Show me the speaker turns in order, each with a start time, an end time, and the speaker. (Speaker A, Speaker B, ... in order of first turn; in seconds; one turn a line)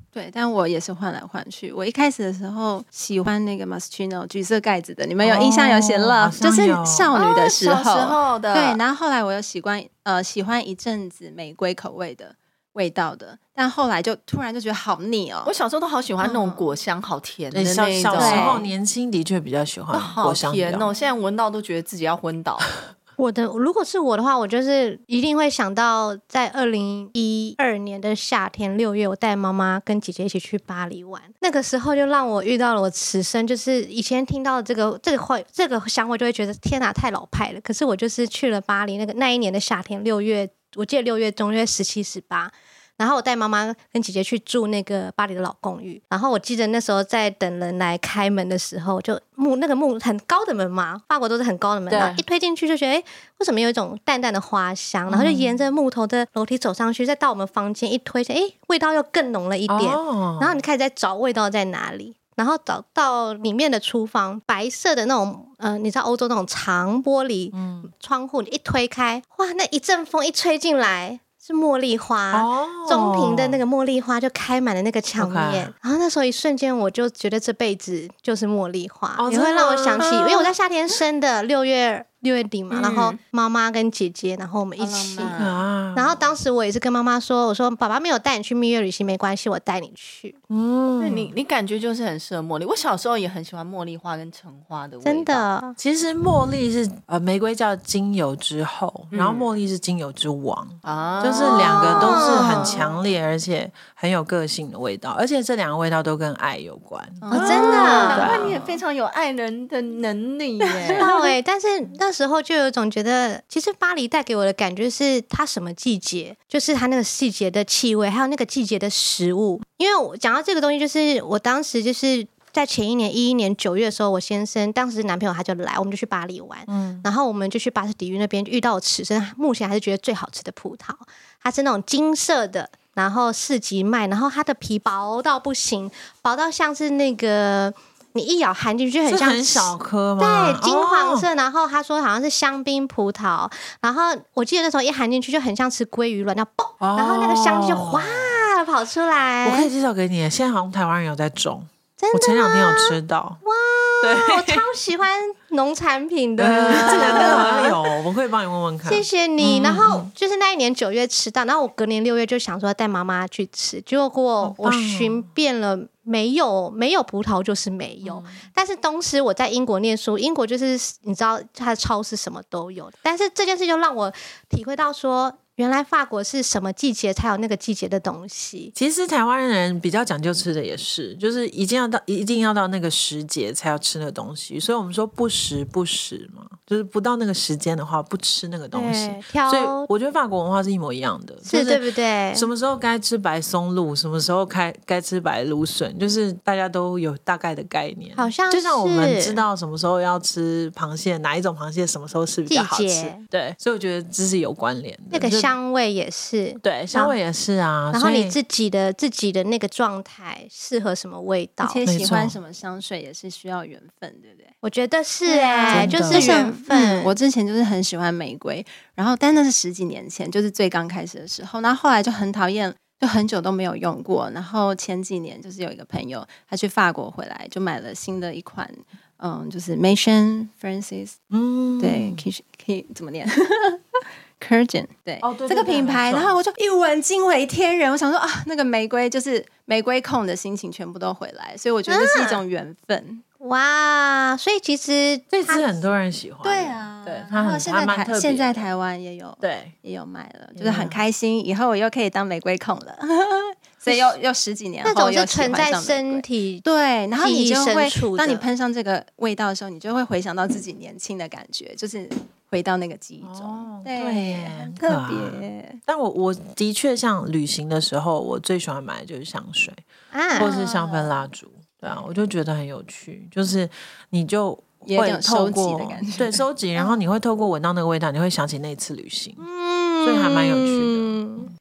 Speaker A: 0.1-15.5
Speaker B: 5.2-7.1
Speaker C: 7.1-8.8
Speaker C: 15.4-18.7
Speaker A: 16.2-16.6
Speaker B: 17.5-20.9
Speaker A: 18.1-18.7
Speaker C: 19.9-22.7
Speaker D: 23.2-85.4
Speaker B: 51.9-52.2
Speaker B: 55.1-55.5
Speaker B: 59.7-60.6
Speaker B: 67.5-67.9
Speaker B: 72.3-73.6
Speaker B: 75.2-75.7
Speaker B: 79.2-80.5
Speaker C: 82.7-83.2
Speaker A: 84.8-85.4
Speaker C: 84.9-85.5
Speaker B: 85.3-86.3
Speaker D: 85.9-90.4
Speaker B: 90.5-91.3
Speaker C: 91.0-95.5
Speaker D: 95.0-95.8
Speaker B: 95.8-108.8
Speaker C: 99.1-99.5
Speaker C: 100.8-102.9
Speaker D: 101.3-102.8
Speaker A: 107.2-108.3
Speaker D: 107.3-108.4
Speaker C: 107.3-111.1
Speaker A: 110.8-111.1
Speaker D: 111.0-149.7
Speaker B: 126.7-127.0
Speaker B: 139.1-141.3
Speaker B: 146.8-148.4
Speaker B: 149.4-153.4
Speaker D: 152.0-157.7
Speaker B: 154.0-154.7
Speaker B: 156.4-160.1
Speaker A: 156.7-157.7
Speaker D: 158.8-178.7
Speaker B: 164.4-165.3
Speaker B: 168.0-168.4
Speaker B: 178.7-205.6
Speaker D: 188.7-189.9
Speaker D: 191.4-192.5
Speaker D: 198.2-199.4
Speaker D: 202.5-203.2
Speaker D: 205.1-207.2
Speaker B: 206.6-208.3
Speaker D: 207.9-211.8
Speaker A: 211.6-214.5
Speaker B: 211.8-212.4
Speaker D: 214.6-217.1
Speaker A: 215.2-231.2
Speaker B: 215.7-216.3
Speaker C: 216.1-216.4
Speaker B: 231.3-232.2
Speaker A: 231.8-243.2
Speaker B: 235.2-236.3
Speaker D: 241.9-242.4
Speaker D: 243.4-245.7
Speaker B: 245.3-248.7
Speaker A: 246.4-265.8
Speaker B: 249.4-249.7
Speaker B: 250.6-251.0
Speaker D: 254.8-258.4
Speaker B: 263.2-269.8
Speaker D: 270.1-270.6
Speaker B: 270.4-279.4
Speaker A: 270.4-271.1
Speaker A: 274.8-276.4
Speaker D: 279.4-281.5
Speaker B: 280.0-281.5